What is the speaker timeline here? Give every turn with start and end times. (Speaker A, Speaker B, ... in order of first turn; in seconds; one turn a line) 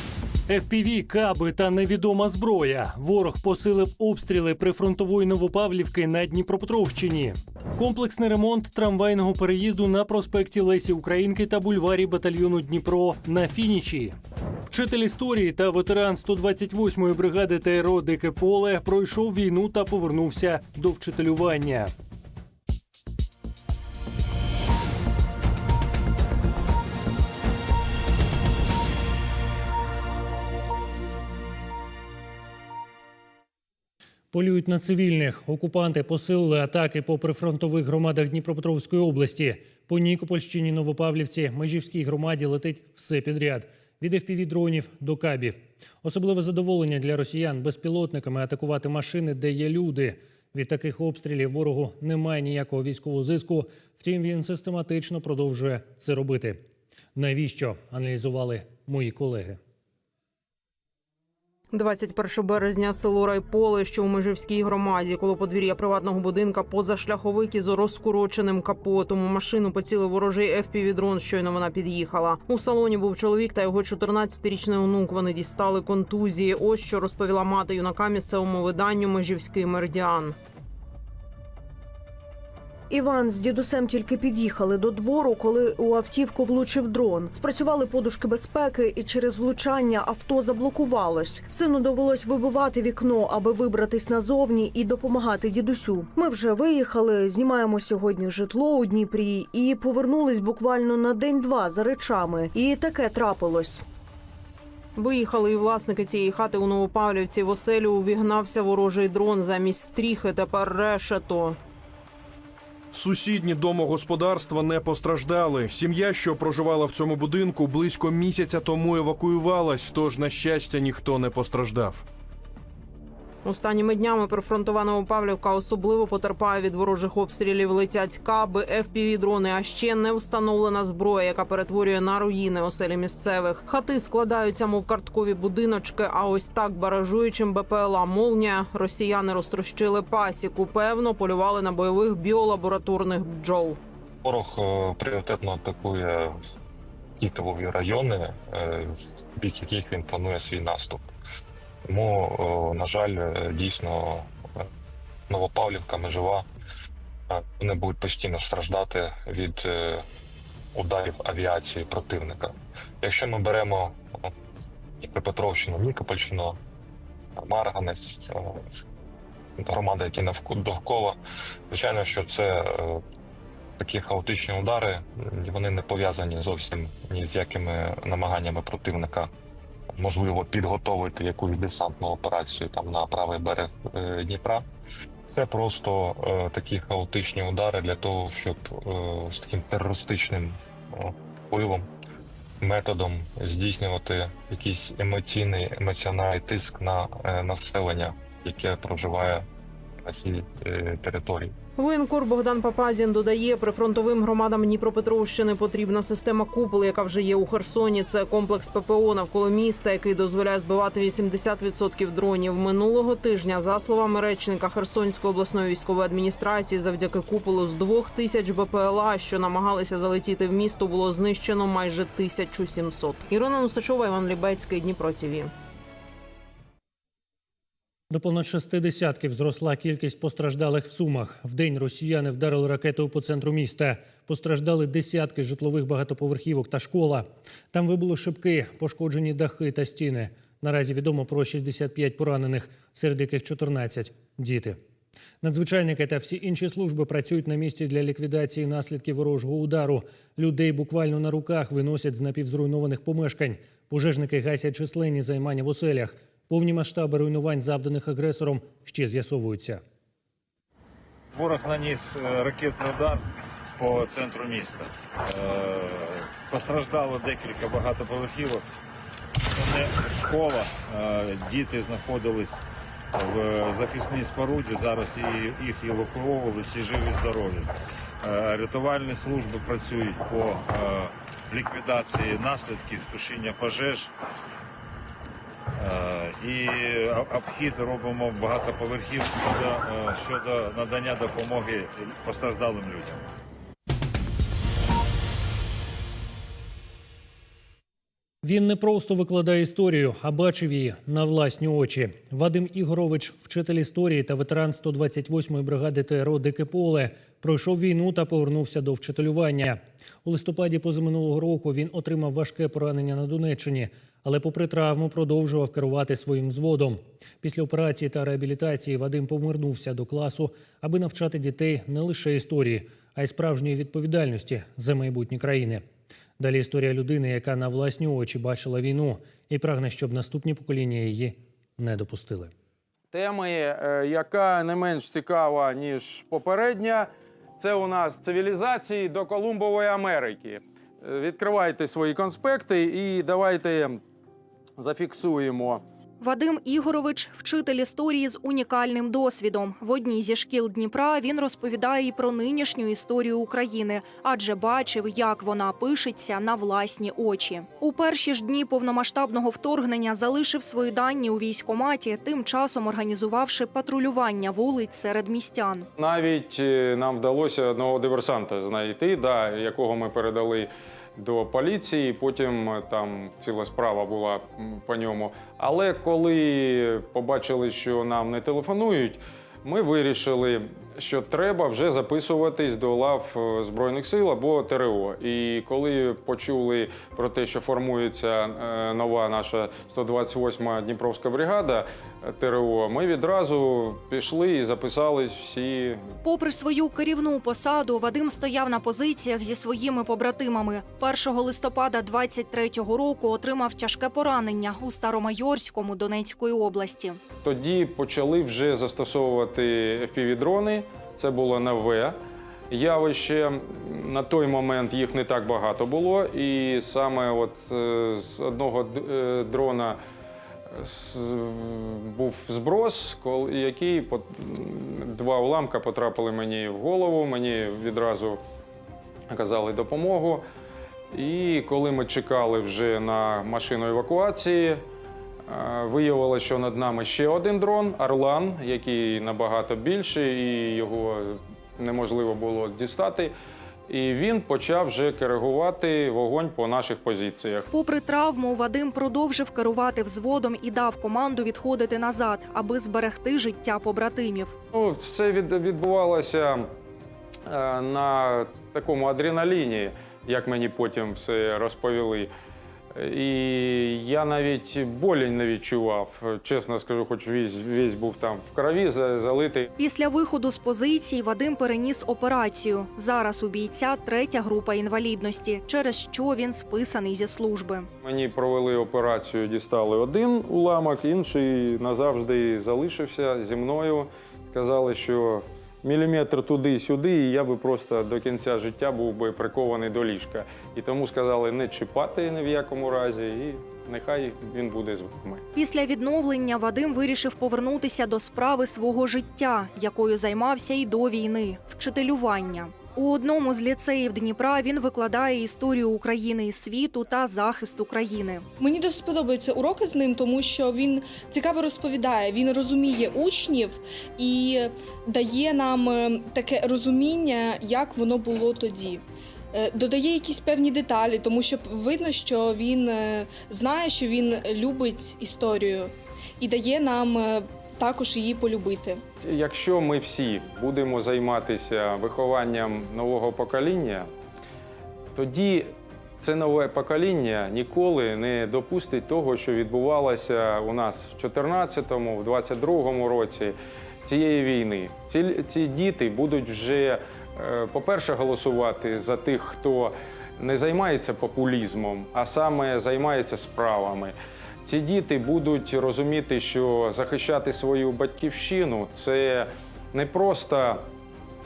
Speaker A: 0.5-21.9
Speaker A: 34.3-56.6
Speaker A: 57.2-59.6
Speaker B: 61.7-80.4
Speaker C: 82.9-103.8
Speaker B: 105.0-111.6
Speaker D: 112.9-122.0
Speaker B: 123.4-143.8
Speaker E: 144.2-146.4
Speaker E: 147.2-151.1
Speaker E: 151.9-154.7
Speaker E: 155.3-156.5
Speaker E: 157.3-160.1
Speaker E: 160.8-164.3
Speaker E: 165.0-166.6
Speaker E: 167.4-168.8
Speaker E: 169.6-171.2
Speaker E: 171.7-173.0
Speaker E: 173.8-179.3
Speaker E: 179.9-184.7
Speaker E: 185.3-191.9
Speaker E: 192.6-199.5
Speaker E: 200.0-201.6
Speaker B: 201.8-225.5
Speaker A: 228.1-244.8
Speaker A: 245.4-259.8
Speaker F: 261.3-263.2
Speaker F: 263.8-268.6
Speaker F: 269.5-277.7
Speaker F: 278.2-284.1
Speaker F: 285.8-293.3
Speaker A: 298.4-325.9
Speaker A: 326.4-332.5
Speaker G: 333.1-344.0
Speaker G: 344.8-345.8
Speaker H: 346.2-365.9
Speaker G: 366.0-396.1
Speaker H: 396.2-407.2
Speaker G: 407.4-412.2
Speaker G: 412.7-420.0
Speaker G: 420.7-428.4
Speaker G: 429.3-430.4
Speaker G: 431.1-434.8
Speaker G: 435.5-443.3
Speaker G: 443.9-447.7
Speaker H: 447.7-454.5
Speaker G: 454.7-456.7
Speaker G: 457.5-462.3
Speaker G: 462.9-469.7
Speaker H: 469.8-477.9
Speaker G: 478.0-495.4
Speaker H: 495.6-508.4
Speaker I: 508.6-519.0
Speaker I: 519.5-529.0
Speaker G: 529.2-534.1
Speaker G: 535.1-560.9